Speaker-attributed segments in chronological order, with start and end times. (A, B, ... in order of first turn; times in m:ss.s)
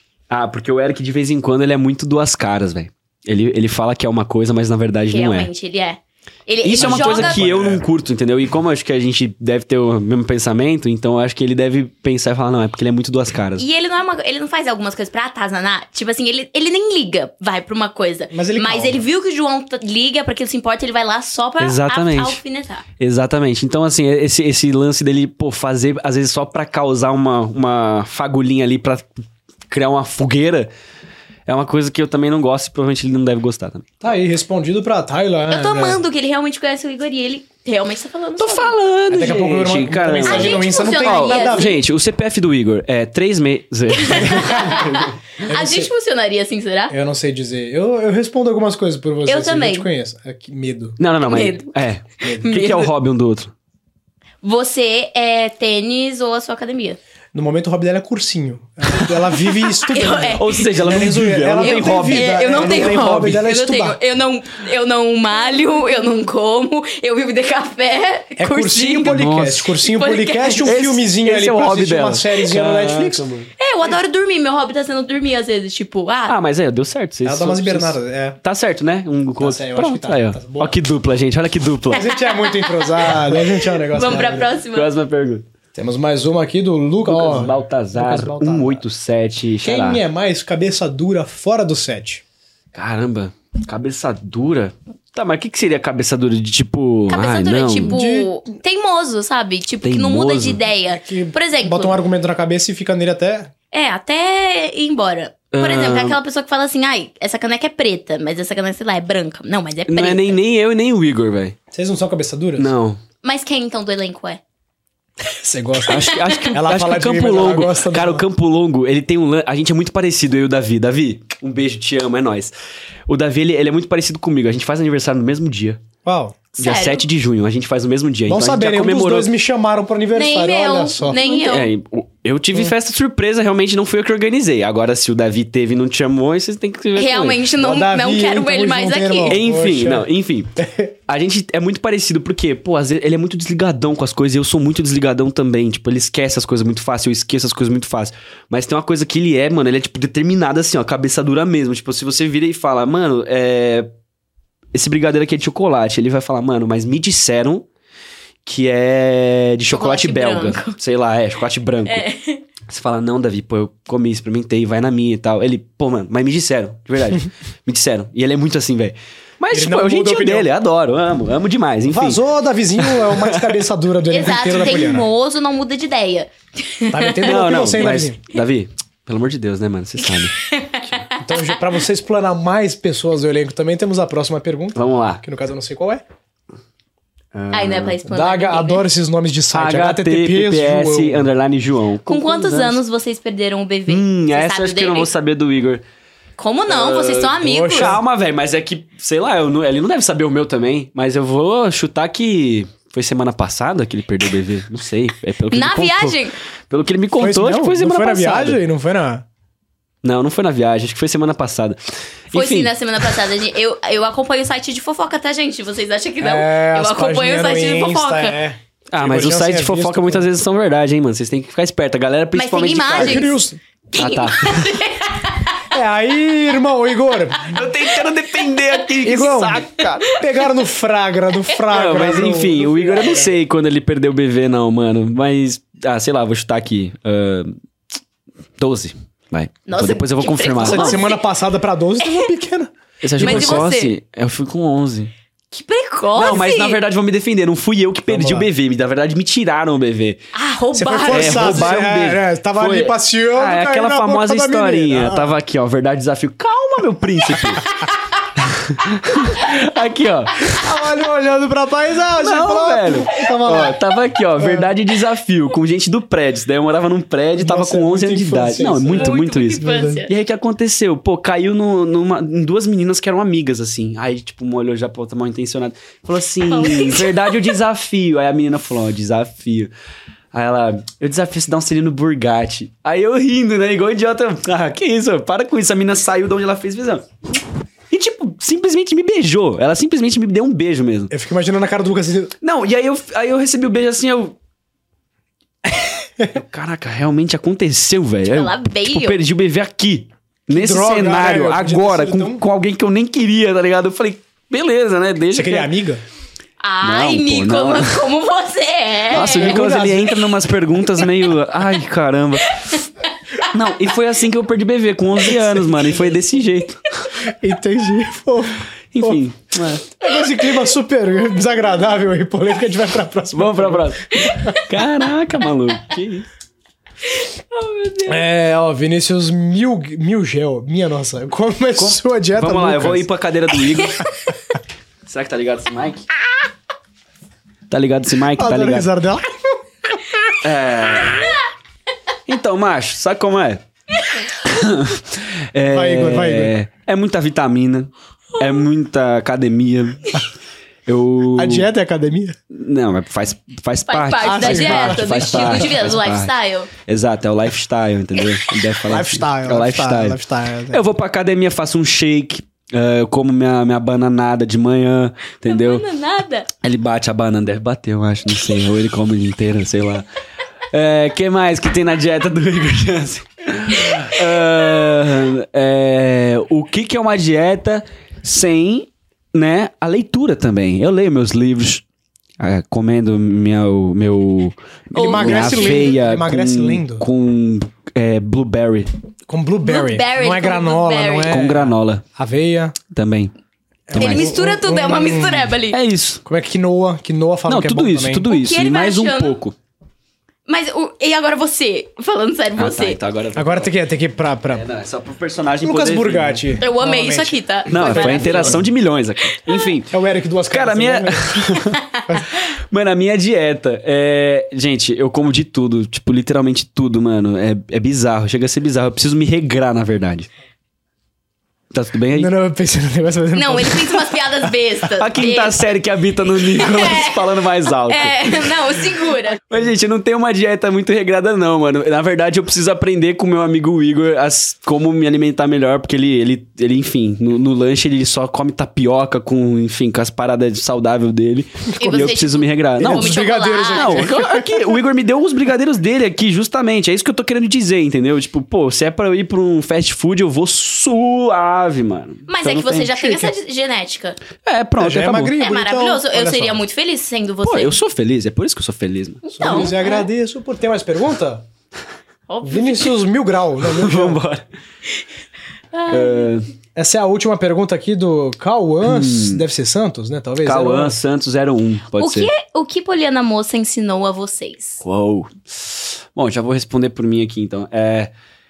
0:00.3-0:05.5 A
0:05.1-0:07.4 B
0:06.6-0:13.6 A
0:06.8-0:07.8 C
0:13.6-0:22.8 B
0:18.3-0:19.0 C
0:21.6-0:22.4 A
0:23.0-0:29.1 A
0:29.7-0:30.7 A
0:31.5-0:33.9 A
0:34.0-0:36.0 C
0:35.5-0:38.7 B
0:38.4-0:44.9 A
0:39.1-0:41.8 C
0:40.2-0:41.8 B
0:43.9-0:46.9 B
0:44.2-0:45.9 C
0:46.9-0:51.0 C
0:49.3-0:49.9 B
0:51.0-0:53.5 A
0:51.2-0:51.7 B
0:52.2-0:52.5 C
0:52.3-0:52.9 B
0:54.4-0:57.0 B
0:57.3-1:04.0 C
0:59.8-1:00.6 B
1:00.4-1:03.4 A
1:01.6-1:09.2 B
1:08.4-1:13.2 C
1:09.0-1:09.7 A
1:09.8-1:10.8 B
1:10.6-1:13.5 A
1:13.6-1:16.4 B
1:16.3-1:22.1 A
1:17.2-1:18.4 C
1:19.4-1:20.8 C
1:21.9-1:24.5 C
1:22.1-1:23.2 B
1:23.9-1:24.9 B
1:24.7-1:25.4 A
1:25.8-1:28.8 C
1:27.0-1:30.0 A
1:29.6-1:32.2 C
1:32.7-1:38.0 A
1:37.1-1:42.0 B
1:37.8-1:38.4 C
1:39.8-1:40.6 A
1:40.9-1:43.5 C
1:43.7-1:50.4 B
1:45.5-1:46.2 A
1:49.9-1:51.6 A
1:51.7-1:52.7 C
1:52.6-1:53.0 A
1:53.2-1:54.4 B
1:55.3-1:58.2 C
1:55.9-2:02.5 A
1:55.9-1:56.6 B
2:03.1-2:05.8 A
2:06.0-2:06.4 C
2:06.6-2:07.0 B
2:06.6-2:09.3 A
2:08.3-2:11.2 C
2:10.1-2:11.7 B
2:11.1-2:17.4 A
2:17.0-2:19.4 B
2:17.6-2:20.9 C
2:19.3-2:20.5 A
2:21.1-2:33.9 A
2:34.7-2:37.7 A
2:38.4-2:42.0 A
2:39.7-2:40.8 B
2:41.9-2:42.4 B
2:42.7-2:52.2 A
2:49.5-2:50.5 C
2:51.9-2:55.1 C
2:52.8-2:53.6 A
2:54.1-2:57.8 B
2:56.9-2:58.2 C
2:57.2-3:00.4 A
3:00.4-3:01.2 B
3:01.2-3:06.0 C
3:04.8-3:05.2 A
3:07.3-3:08.0 A
3:07.5-3:08.8 B
3:08.1-3:11.3 C
3:09.5-3:12.8 A
3:12.1-3:15.1 B
3:13.9-3:15.8 A
3:16.4-3:18.0 B
3:16.7-3:28.6 A
3:17.4-3:18.0 C
3:25.5-3:26.4 B
3:27.2-3:29.2 C
3:30.0-3:31.8 A
3:32.3-3:32.7 A
3:32.3-3:38.4 B
3:36.2-3:40.3 C
3:38.9-3:43.3 A
3:42.4-3:43.4 B
3:42.9-3:43.6 C
3:43.9-3:45.6 B
3:44.0-3:44.8 A
3:45.7-3:47.6 C
3:47.5-3:50.1 A
3:49.0-3:53.3 C
3:51.7-3:57.6 A
3:58.6-4:01.1 A
3:59.7-4:01.2 B
4:00.6-4:03.6 C
4:03.0-4:05.1 A
4:03.2-4:03.9 B
4:05.5-4:06.8 B
4:06.2-4:10.2 A
4:08.1-4:08.5 C
4:10.3-4:11.8 B
4:10.7-4:15.3 C
4:11.1-4:17.7 A
4:18.4-4:20.6 A
4:20.5-4:23.8 C
4:22.2-4:39.7 A
4:24.4-4:24.7 C
4:27.4-4:30.0 C
4:28.9-4:30.1 B
4:36.5-4:37.5 B
4:40.3-4:47.1 A
4:47.9-4:51.1 A
4:51.1-4:52.3 C
4:52.4-4:54.4 A
4:56.3-5:05.7 A
4:58.3-4:59.2 B
5:00.5-5:02.4 C
5:05.3-5:06.0 C
5:06.6-5:09.6 B
5:06.8-5:08.1 A
5:09.1-5:10.2 C
5:09.1-5:12.8 A
5:13.5-5:16.8 A
5:17.2-5:19.2 C
5:18.9-5:19.8 A
5:19.9-5:24.5 C
5:23.3-5:26.3 A
5:24.2-5:24.6 B
5:27.1-5:28.2 B
5:28.1-5:33.1 C
5:31.8-5:34.1 A
5:35.1-5:36.1 A
5:37.7-5:38.9 A
5:38.4-5:39.6 C
5:40.4-5:41.4 A
5:42.3-5:43.6 A
5:44.4-5:50.2 A
5:45.7-5:46.5 C
5:50.9-5:51.7 A
5:51.4-5:52.4 C
5:52.5-5:56.3 A
5:53.9-5:56.7 B
5:54.2-5:55.8 C
5:56.8-6:05.8 A
5:58.9-6:00.8 C
6:05.5-6:06.5 B
6:06.6-6:10.0 A
6:10.7-6:21.8 A
6:22.4-6:28.9 A
6:24.9-6:25.9 B
6:25.0-6:27.0 C
6:29.3-6:32.8 C
6:29.6-6:31.5 B
6:31.3-6:32.0 A
6:32.9-6:33.3 A
6:33.9-6:35.6 C
6:33.9-6:34.3 A
6:34.0-6:35.8 B
6:35.7-6:36.2 A
6:36.2-6:38.3 C
6:37.5-6:39.6 A
6:38.3-6:39.4 B
6:40.5-6:43.0 B
6:42.6-6:43.8 A
6:43.4-6:44.7 C
6:44.5-6:46.6 A
6:45.6-6:48.7 C
6:46.6-6:48.6 B
6:47.7-6:50.0 A
6:49.4-6:49.7 B
6:49.9-6:52.3 C
6:50.5-6:51.8 A
6:52.7-7:00.3 A
7:01.7-7:02.3 A
7:02.2-7:04.2 C
7:03.3-7:05.6 B
7:05.0-7:08.6 A
7:06.4-7:07.3 B
7:07.8-7:09.4 B
7:09.4-7:33.3 A
7:21.8-7:24.2 B
7:22.8-7:24.8 C
7:32.3-7:34.2 B
7:34.4-7:35.4 A
7:34.8-7:36.6 C
7:35.4-7:37.8 B
7:37.4-7:39.7 A
7:39.2-7:40.1 B
7:39.3-7:41.5 C
7:42.3-7:43.0 B
7:42.4-7:44.2 C
7:43.6-7:44.4 A
7:45.7-7:46.3 B
7:45.9-7:46.5 A
7:46.8-7:51.0 C
7:48.8-7:49.4 A
7:50.4-7:52.3 A
7:52.0-7:54.8 B
7:54.8-7:58.1 A